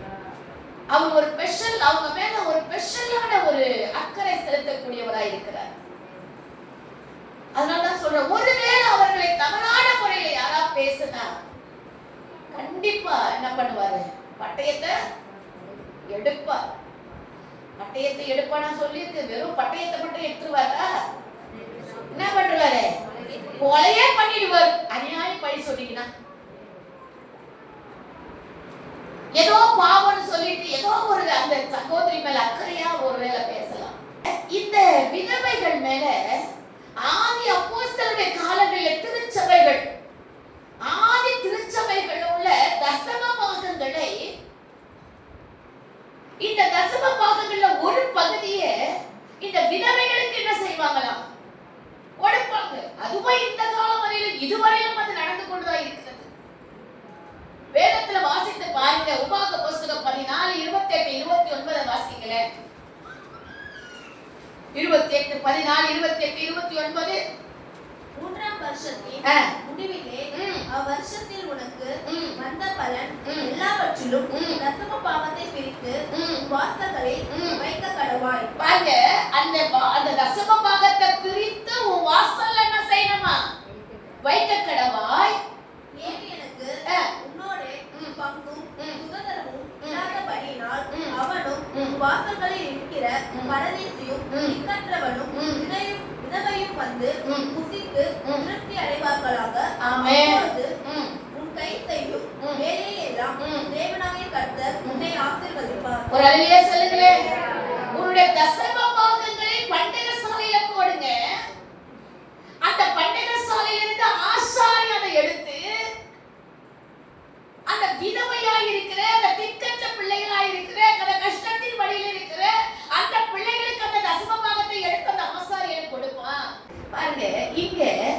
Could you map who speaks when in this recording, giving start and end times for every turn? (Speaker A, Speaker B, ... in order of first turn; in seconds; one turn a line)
Speaker A: 0.9-5.7
Speaker A: 7.6-11.3
Speaker A: 12.5-15.0
Speaker A: 16.1-16.6
Speaker A: 17.8-20.9
Speaker A: 22.1-23.0
Speaker A: 23.6-26.1
Speaker A: 29.4-36.4
Speaker A: 37.0-39.9
Speaker A: 40.8-44.2
Speaker A: 46.4-48.7
Speaker A: 49.4-51.2
Speaker A: 52.2-56.3
Speaker A: 57.8-62.4
Speaker A: 64.8-67.2
Speaker B: 68.2-78.5
Speaker A: 69.3-69.5
Speaker A: 70.3-70.7
Speaker A: 72.0-72.4
Speaker A: 73.2-73.5
Speaker A: 74.3-74.6
Speaker A: 76.1-76.4
Speaker A: 77.3-77.6
Speaker A: 78.6-83.4
Speaker A: 84.2-85.4
Speaker B: 85.9-100.7
Speaker A: 87.9-88.2
Speaker A: 89.8-90.2
Speaker A: 90.9-91.2
Speaker A: 93.3-93.6
Speaker A: 94.3-94.6
Speaker A: 95.3-95.7
Speaker A: 97.2-97.5
Speaker A: 99.8-101.2
Speaker B: 101.3-106.1
Speaker A: 103.4-103.7
Speaker A: 106.1-107.2
Speaker A: 107.9-111.2
Speaker A: 112.7-115.6
Speaker A: 117.7-128.0